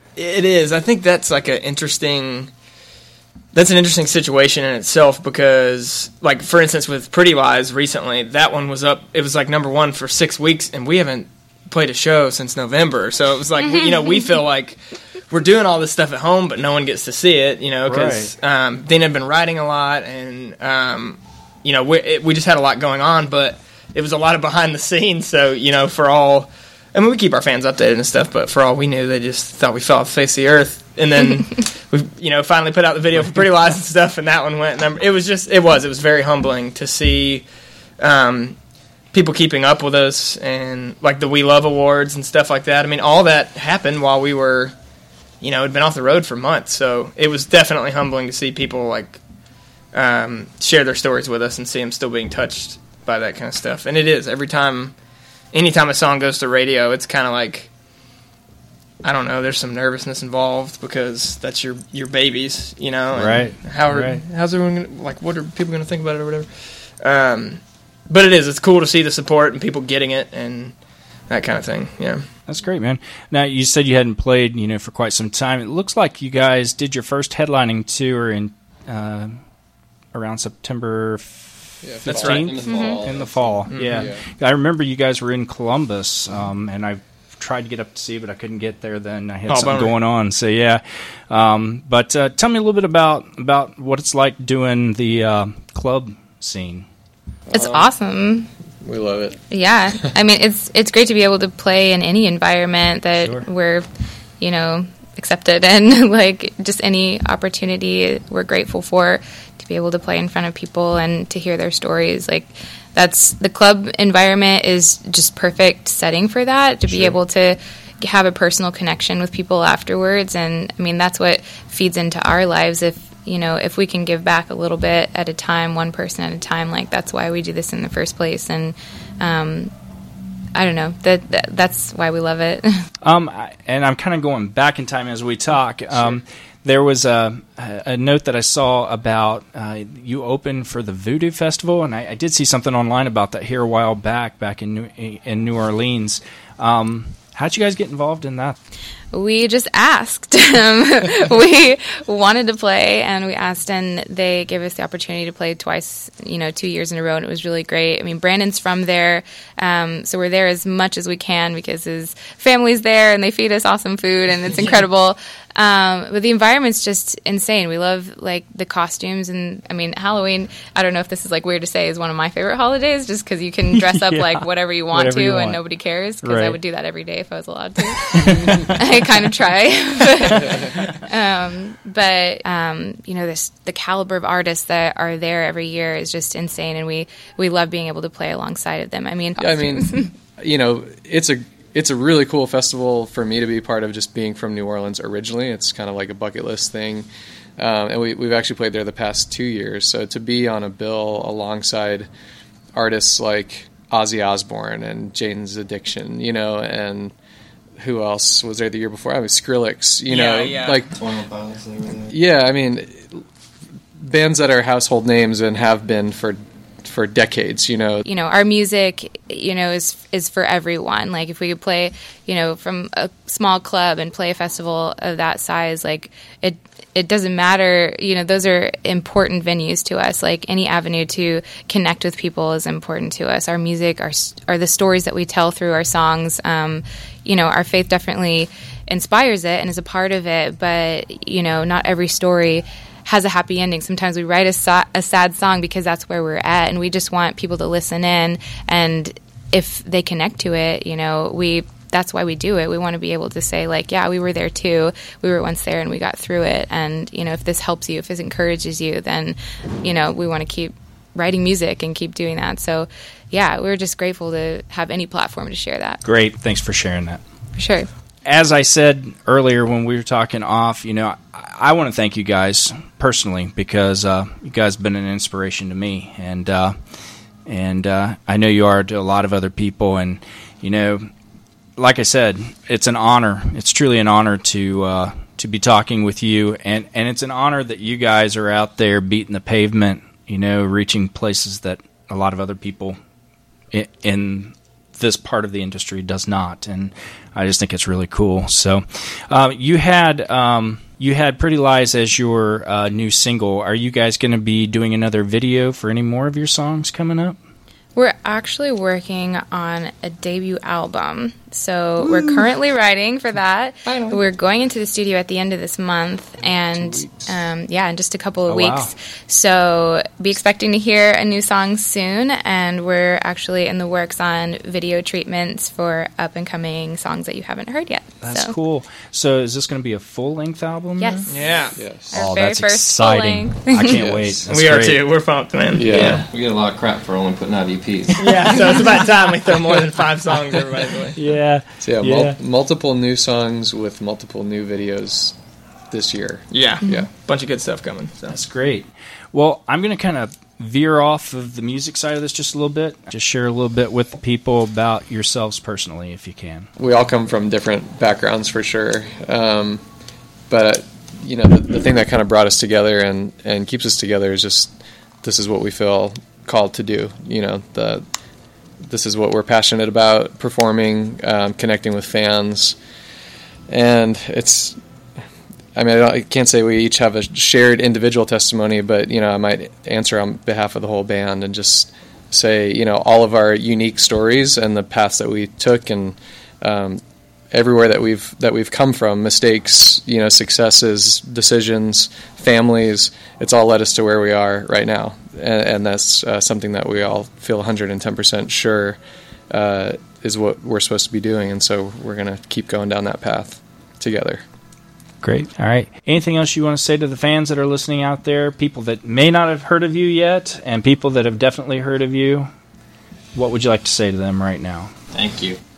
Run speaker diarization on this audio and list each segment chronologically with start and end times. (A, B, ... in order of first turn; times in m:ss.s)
0:00.2-0:02.5 A
0:03.5-0:37.5 A
0:17.8-0:18.3 B
0:38.0-0:38.6 A
0:39.1-0:44.7 A
0:45.4-0:49.2 A
0:49.9-0:55.0 A
0:55.5-0:57.7 A
0:59.0-1:10.7 A
1:03.1-1:04.2 B
1:11.3-1:12.2 A
1:12.5-1:19.4 B
1:20.1-1:36.9 B
1:21.8-1:24.2 C
1:22.1-1:22.5 A
1:22.6-1:23.0 D
1:23.7-1:24.1 A
1:29.5-1:29.9 A
1:37.5-1:37.9 C
1:37.5-1:38.5 D
1:38.8-1:39.4 C
1:39.5-1:43.9 D
1:43.2-1:43.4 B
1:44.4-2:09.7 D
2:10.5-2:12.8 D
2:13.0-2:28.6 B
2:15.9-2:16.2 C
2:29.1-3:10.1 D
2:53.7-2:55.6 B
2:56.2-2:56.6 B
2:58.0-2:58.8 B
3:00.3-3:00.7 C
3:00.3-3:00.9 B
3:09.4-3:22.1 C
3:22.7-3:27.1 C
3:27.8-3:30.9 C
3:30.1-3:30.8 A
3:30.9-3:32.1 E
3:32.1-3:33.2 C
3:34.0-3:38.0 C
3:38.0-4:26.0 D
4:26.0-4:27.2 B
4:27.6-4:27.9 D
4:28.2-4:36.7 B
4:37.4-4:41.1 B
4:41.8-4:53.0 B
4:53.7-5:07.4 B
5:07.9-5:28.5 D
5:12.0-5:12.4 A
5:13.8-5:14.2 A
5:16.8-5:17.1 B
5:18.5-5:18.9 B
5:28.2-5:31.4 B
5:31.0-5:31.6 D
5:31.3-5:31.8 A
5:31.8-5:32.2 C
5:32.1-5:35.0 B
5:32.1-5:34.0 D
5:33.8-5:34.4 C
5:34.5-5:36.2 A
5:35.7-5:36.2 C
5:35.9-5:38.4 E
5:38.2-5:41.2 A
5:38.2-5:38.9 B
5:41.2-5:42.4 B
5:41.8-5:45.4 C
5:45.9-5:47.1 C
5:46.5-5:48.4 A
5:48.3-5:56.7 B
5:56.8-5:59.8 C
6:00.5-6:08.0 C
6:08.8-6:12.8 C
6:13.7-6:14.8 C
6:15.7-6:27.0 C
6:27.5-6:44.4 C
6:45.2-6:52.5 B
6:53.3-6:54.9 B
6:55.1-6:55.6 E